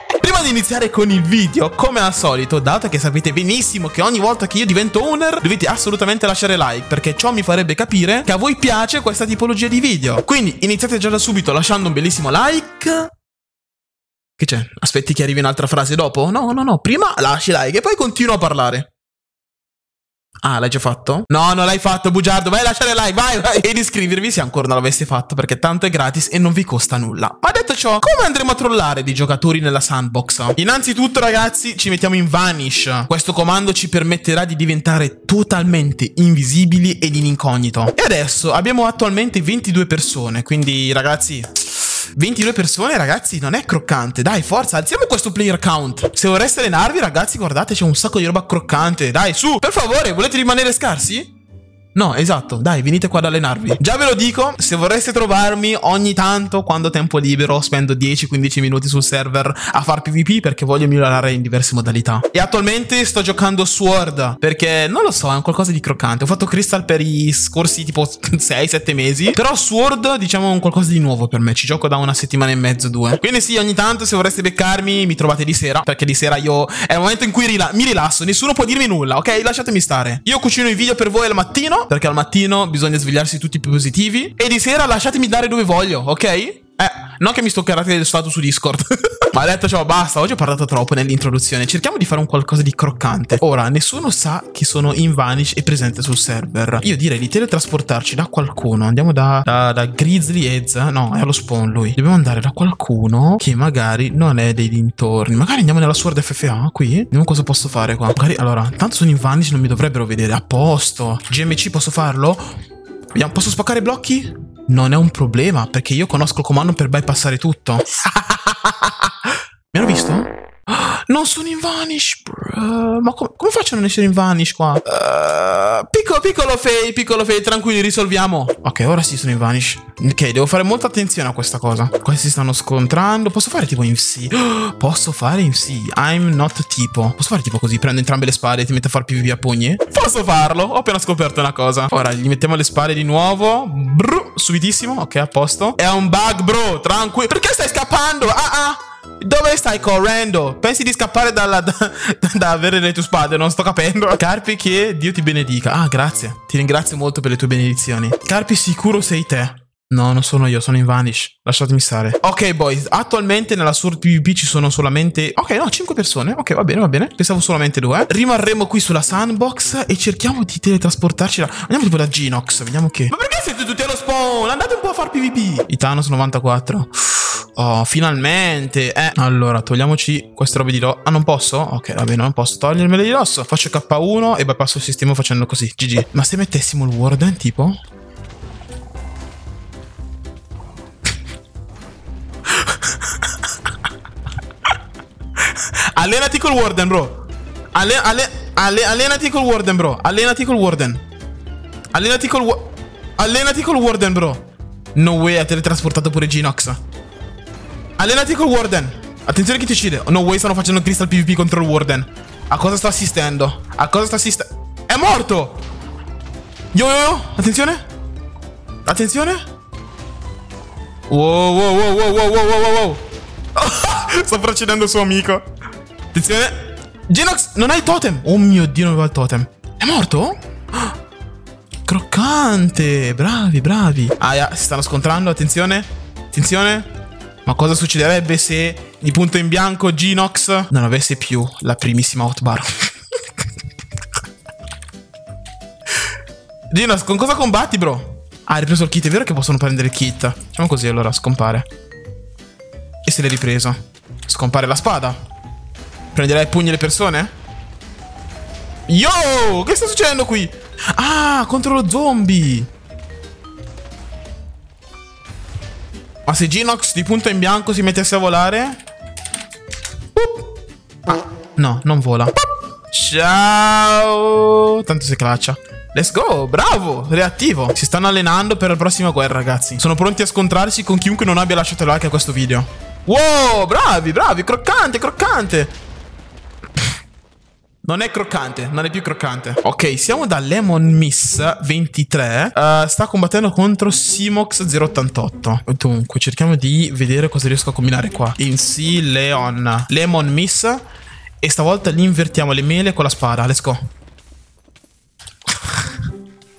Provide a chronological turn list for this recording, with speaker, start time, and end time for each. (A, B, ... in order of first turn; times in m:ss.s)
0:00.2-0:13.1 A
0:14.4-0:18.9 A
0:20.4-0:51.3 A
0:51.9-1:52.4 A
1:53.1-3:07.8 A
3:12.5-3:13.7 A
3:15.4-3:21.0 A
3:21.9-3:26.8 A
3:28.0-3:35.6 A
3:36.7-3:37.8 A
3:38.8-3:39.4 A
3:41.1-3:45.4 A
3:46.1-3:46.5 A
3:47.1-3:51.0 A
3:51.8-3:56.9 A
3:57.4-4:02.7 A
4:06.7-4:11.7 A
4:13.0-4:15.2 A
4:16.1-4:17.3 A
4:18.9-4:22.7 A
4:26.2-4:28.8 A
4:30.1-4:30.5 A
4:31.1-4:32.3 A
4:32.9-4:45.7 A
4:47.8-5:00.8 A
5:01.4-5:03.8 A
5:05.6-5:05.9 A